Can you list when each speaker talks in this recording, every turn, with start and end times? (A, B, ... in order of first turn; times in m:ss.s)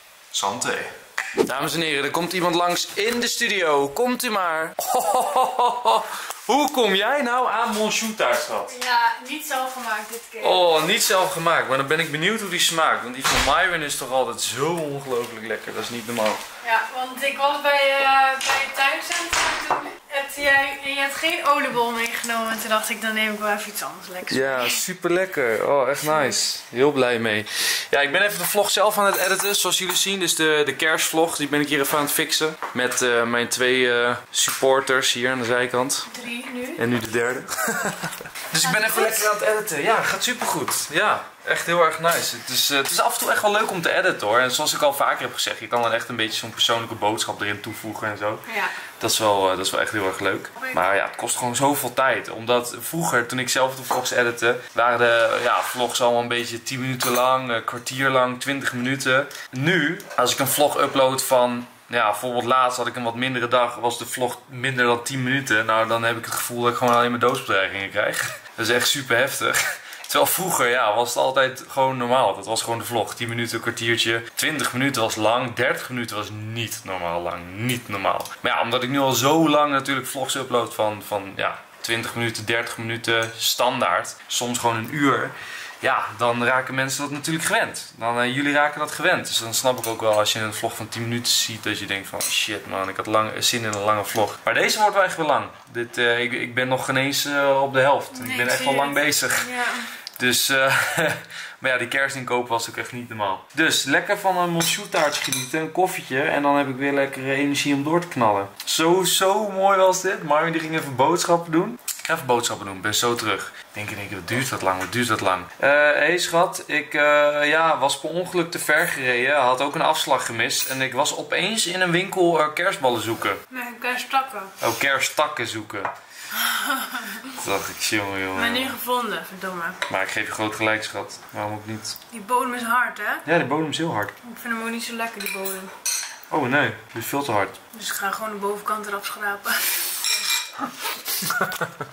0:00.3-0:08.7 A
0:08.7-0:10.8 B
0:10.4-0:16.4 A
0:16.6-0:24.8 B
0:24.3-0:36.1 A
0:26.1-0:26.4 B
0:36.1-0:36.8 B
0:36.8-0:48.4 A
0:38.6-0:39.2 B
0:48.5-0:48.7 B
0:49.0-1:39.5 A
1:38.1-1:39.9 B
1:40.2-2:03.4 A
2:03.5-2:04.5 B
2:04.6-2:05.9 A
2:06.4-2:07.3 B
2:07.3-2:08.8 A
2:08.3-2:09.8 B
2:09.9-2:12.0 A
2:12.1-2:13.2 B
2:13.2-2:14.1 A
2:14.2-2:15.7 B
2:16.3-2:17.6 A
2:17.7-2:20.1 B
2:21.2-2:21.6 A